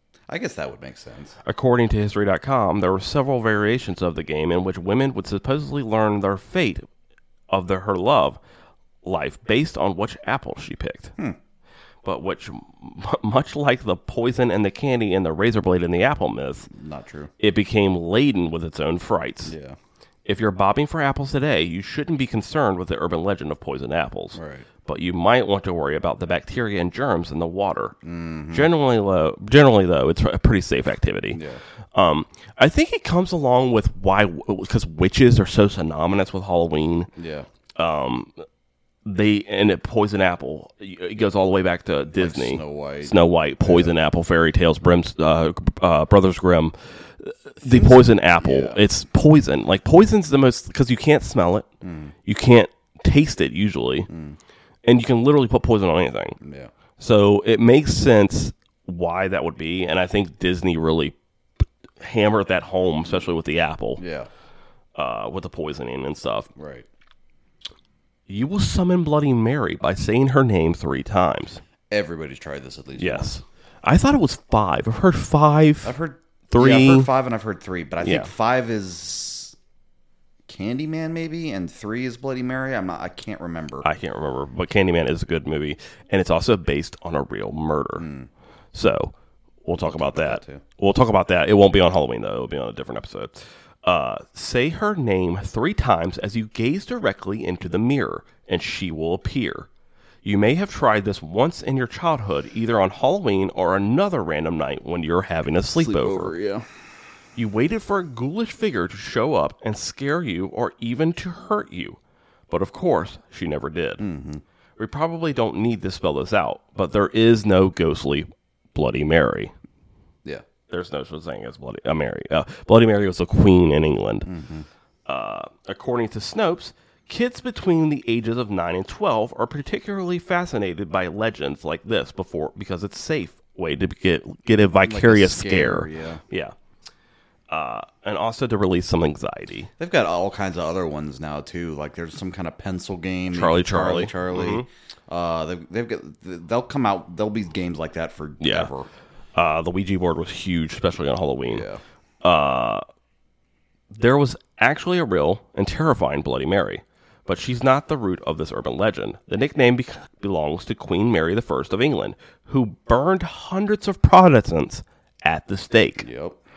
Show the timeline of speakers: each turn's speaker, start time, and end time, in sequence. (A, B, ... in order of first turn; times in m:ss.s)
0:00.3-0:01.4 A
0:01.4-0:06.8 B
0:07.5-0:08.4 B
0:09.0-0:11.1 B
0:12.0-0:16.7 B
0:16.7-0:17.3 A
0:17.4-0:19.5 B
0:19.4-0:19.8 A
0:20.2-0:27.9 B
0:24.4-0:24.7 A
0:28.0-0:28.7 A
0:28.5-0:31.4 B
0:31.3-0:31.6 A
0:31.9-0:37.1 B
0:37.2-0:37.5 A
0:37.8-0:38.4 B
0:39.0-0:51.7 B
0:42.2-0:44.0 A
0:47.6-0:48.8 A
0:51.8-0:52.1 A
0:52.2-0:54.1 B
0:54.1-0:54.4 A
0:54.8-0:56.4 B
0:56.4-0:56.7 A
0:57.0-1:01.2 B
1:02.0-1:04.0 B
1:04.0-1:04.3 A
1:05.0-1:06.5 B
1:06.6-1:06.9 A
1:08.3-1:11.6 B
1:11.9-1:13.4 A
1:13.0-1:15.9 B
1:15.8-1:19.6 A
1:16.5-1:17.1 B
1:18.0-1:18.3 B
1:20.5-1:23.9 A
1:23.8-1:28.0 B
1:28.0-1:28.3 A
1:28.7-1:39.7 B
1:29.8-1:30.6 A
1:40.2-1:46.3 B
1:45.8-1:46.7 A
1:47.4-1:52.0 B
1:52.5-1:54.0 B
1:54.0-1:54.4 A
1:54.8-1:59.5 B
2:00.7-2:04.3 B
2:04.2-2:04.7 A
2:05.0-2:16.5 B
2:14.8-2:16.2 A
2:17.5-2:19.7 B
2:19.8-2:28.9 A
2:23.3-2:24.7 B
2:28.4-2:28.7 B
2:29.4-2:31.6 B
2:31.5-2:31.8 A
2:32.2-2:32.8 B
2:33.9-2:46.1 B
2:46.0-2:46.4 A